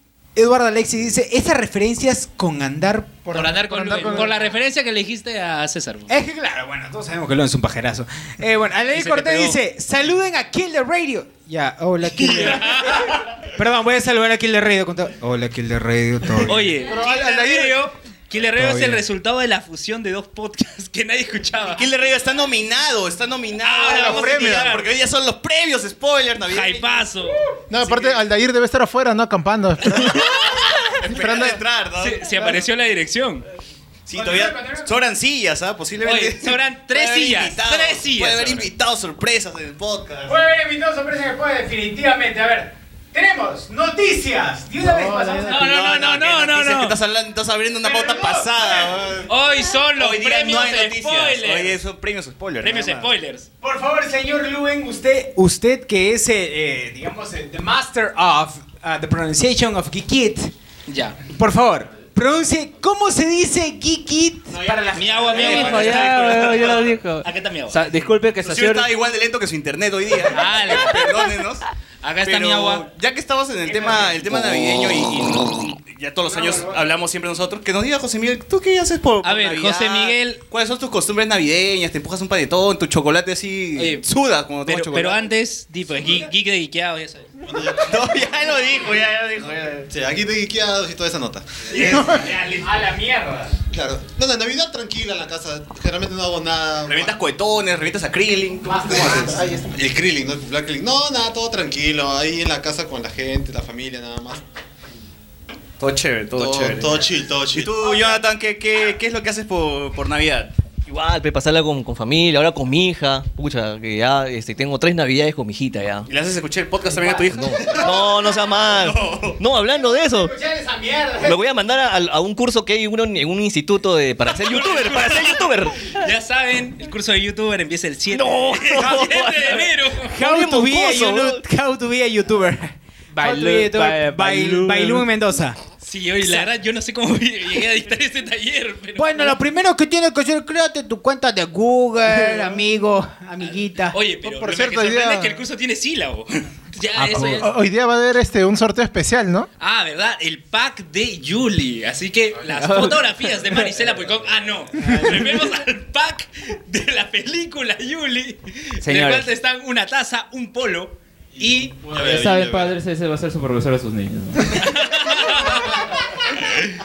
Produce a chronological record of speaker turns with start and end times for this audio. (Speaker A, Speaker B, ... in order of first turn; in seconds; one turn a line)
Speaker A: 0.4-4.3
Speaker B: 3.3-4.3
Speaker C: 3.3-6.1
Speaker A: 6.1-16.8
Speaker C: 8.9-9.6
Speaker C: 12.2-13.2
Speaker C: 16.4-21.9
Speaker B: 16.9-17.8
Speaker A: 18.6-19.0
Speaker D: 21.7-27.1
Speaker C: 23.6-24.9
Speaker B: 23.9-24.7
Speaker C: 26.5-28.1
Speaker B: 27.7-30.3
Speaker C: 30.0-30.9
Speaker D: 31.0-32.6
Speaker B: 31.1-31.6
Speaker C: 32.0-33.4
Speaker D: 34.1-40.4
Speaker A: 34.1-34.9
Speaker C: 36.0-38.7
Speaker A: 40.3-45.9
Speaker D: 45.2-49.3
Speaker C: 45.4-47.0
Speaker A: 47.8-49.0
Speaker C: 49.3-51.8
Speaker D: 50.0-53.1
Speaker C: 52.6-53.5
Speaker A: 53.6-60.5
Speaker C: 60.9-61.2
Speaker A: 61.3-65.9
Speaker D: 64.5-67.0
Speaker C: 64.9-67.8
Speaker E: 65.3-68.9
Speaker D: 68.4-71.7
Speaker C: 70.3-71.1
Speaker C: 72.0-72.8
Speaker D: 72.2-85.3
Speaker A: 73.7-74.1
Speaker C: 79.2-80.4
Speaker C: 83.8-84.0
Speaker C: 84.7-87.3
Speaker F: 87.5-88.3
Speaker D: 87.8-89.9
Speaker F: 89.9-92.2
Speaker C: 91.7-92.7
Speaker A: 92.6-93.6
Speaker F: 93.7-97.2
Speaker D: 96.9-99.3
Speaker A: 98.6-99.7
Speaker F: 99.7-104.4
Speaker D: 105.8-110.5
Speaker F: 106.3-107.7
Speaker G: 110.9-116.1
Speaker D: 116.0-119.4
Speaker A: 117.0-117.9
Speaker G: 117.2-120.3
Speaker A: 119.7-121.4
Speaker G: 121.2-125.9
Speaker C: 124.4-130.1
Speaker G: 128.1-131.4
Speaker A: 128.9-135.6
Speaker E: 133.2-135.0
Speaker C: 135.8-139.4
Speaker A: 136.2-136.5
Speaker A: 139.0-144.0
Speaker C: 143.9-147.5
Speaker B: 144.2-145.4
Speaker A: 147.0-147.4
Speaker B: 147.2-149.5
Speaker C: 149.6-161.7
Speaker E: 152.6-153.0
Speaker E: 158.8-159.3
Speaker F: 161.4-162.8
Speaker H: 161.9-164.6
Speaker C: 164.5-165.8
Speaker C: 166.3-166.7